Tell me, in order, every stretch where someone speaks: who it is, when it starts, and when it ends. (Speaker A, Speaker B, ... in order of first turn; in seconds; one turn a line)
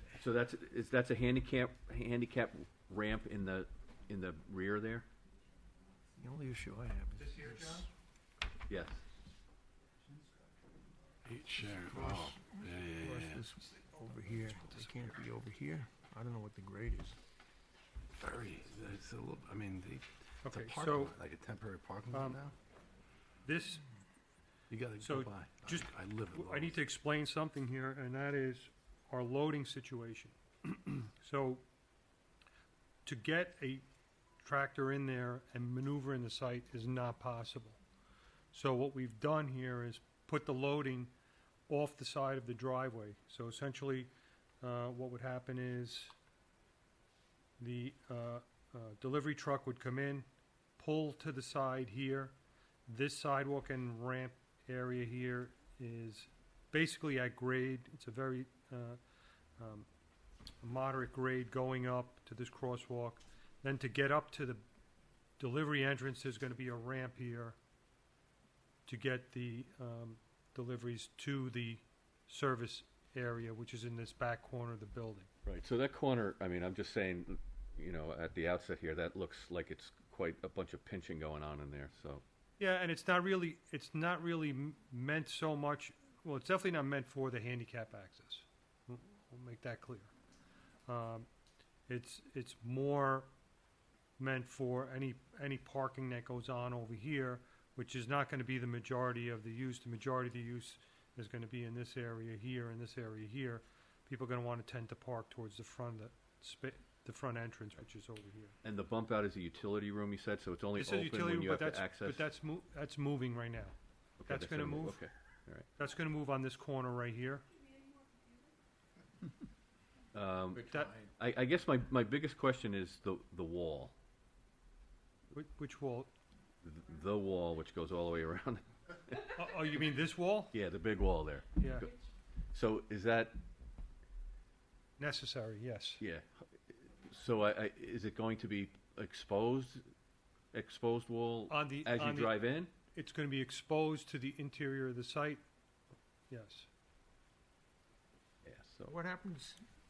Speaker A: 0.1-5.0
Speaker B: 6.2-7.8
Speaker C: 7.2-7.9
Speaker A: 8.7-9.0
Speaker D: 11.2-13.4
Speaker B: 11.9-17.1
Speaker D: 18.2-22.5
Speaker C: 20.4-21.1
Speaker C: 22.1-22.4
Speaker C: 23.4-23.8
Speaker D: 24.7-26.8
Speaker C: 25.0-31.6
Speaker C: 33.0-33.8
Speaker C: 34.4-37.8
Speaker C: 38.5-41.1
Speaker C: 41.7-44.1
Speaker C: 44.6-46.1
Speaker C: 47.6-50.2
Speaker C: 50.8-52.3
Speaker C: 52.9-59.0
Speaker C: 59.6-59.9
Speaker C: 60.6-64.6
Speaker C: 65.4-67.5
Speaker C: 68.8-75.3
Speaker A: 75.4-82.2
Speaker C: 82.6-90.1
Speaker C: 90.9-91.2
Speaker C: 91.9-93.3
Speaker C: 94.2-108.5
Speaker A: 108.6-112.2
Speaker C: 110.8-113.7
Speaker A: 114.2-115.7
Speaker C: 114.3-115.0
Speaker C: 115.8-117.5
Speaker A: 120.1-123.9
Speaker C: 125.3-126.1
Speaker A: 126.6-129.7
Speaker C: 129.4-130.5
Speaker A: 130.5-131.9
Speaker C: 131.6-131.9
Speaker A: 132.5-133.4
Speaker C: 135.0-136.0
Speaker A: 136.0-136.2
Speaker A: 137.0-139.8
Speaker A: 140.5-142.7
Speaker C: 141.5-142.3
Speaker C: 142.9-145.4
Speaker C: 146.3-146.7
Speaker A: 148.4-148.9
Speaker B: 149.0-149.5